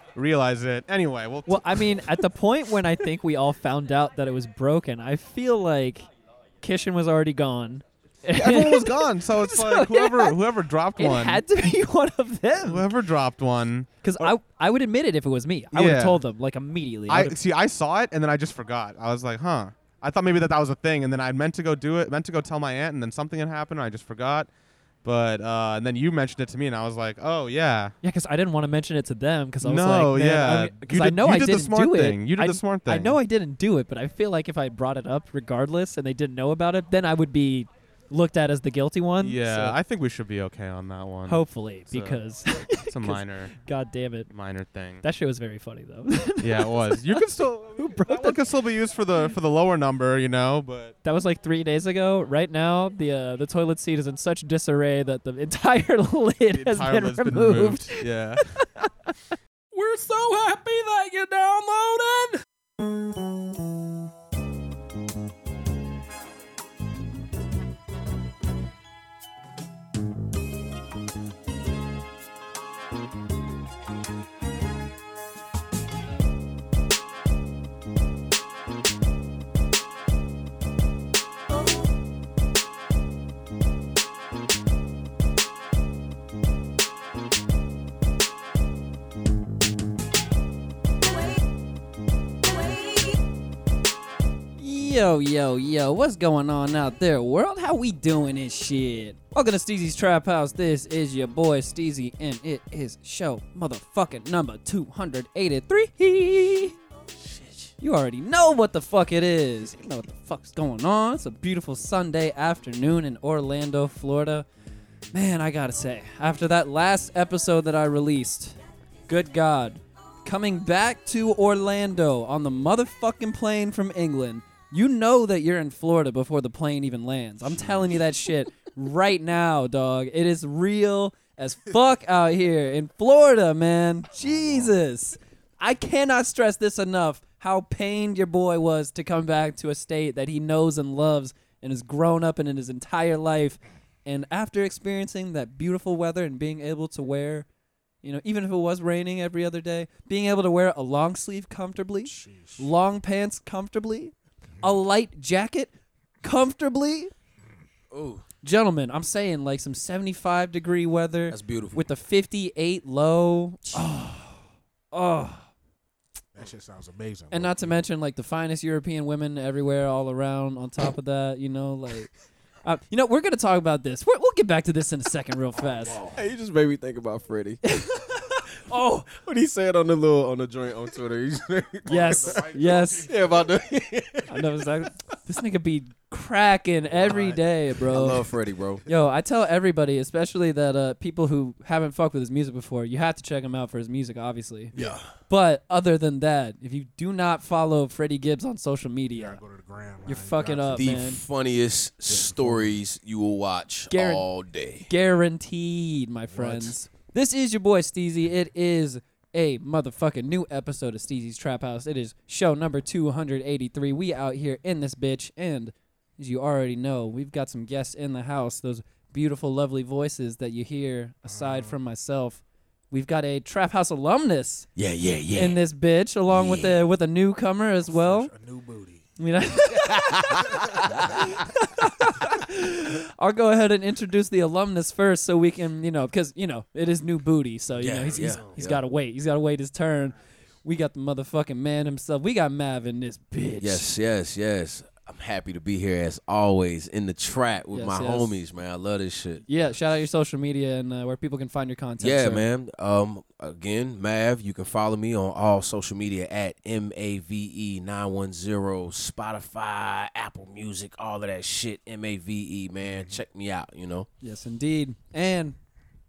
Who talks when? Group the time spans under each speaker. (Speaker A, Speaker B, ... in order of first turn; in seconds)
Speaker A: 0.1-2.2, 8.3-11.4, 12.6-14.3, 15.7-16.2, 17.1-24.5, 25.0-27.9, 29.6-33.2, 39.2-42.2, 42.8-43.5, 44.3-45.0, 46.4-51.0, 56.5-58.5
Speaker B: 1.4-6.1, 6.6-10.4, 11.0-12.9, 14.0-17.3, 28.0-39.8, 41.2-44.3, 45.0-47.2, 47.7-48.4, 51.0-59.1, 59.7-62.3, 94.6-106.7, 107.8-114.5, 115.1-118.6, 119.1-147.4, 148.0-155.7, 156.2-157.1, 158.4-164.4, 164.9-165.4, 167.3-172.1, 172.6-176.0, 177.6-179.1, 181.9-183.1, 184.3-188.2, 188.8-194.7, 195.3-199.4, 200.1-201.2, 203.9-204.3, 204.9-224.7, 225.3-228.3, 229.2-230.2, 230.9-243.9, 247.7-248.3, 249.5-252.4, 264.2-265.6
Speaker C: 107.2-107.7, 157.9-158.2, 161.3-161.8, 176.1-177.6, 179.1-182.4, 183.0-184.7, 187.8-188.8, 194.7-195.1, 200.7-204.9, 224.8-225.6, 226.3-226.7, 229.7-231.3, 237.8-238.8, 243.6-249.4, 252.0-264.1
Speaker D: 127.4-127.9, 134.2-134.7, 152.0-152.7, 166.3-167.8, 175.6-176.2, 181.8-183.5, 186.9-187.4, 188.0-188.2, 194.7-195.0, 199.1-200.9, 202.1-202.8, 206.3-206.7, 221.2-221.8, 227.8-229.1, 230.5-231.2, 238.0-238.7, 262.8-263.2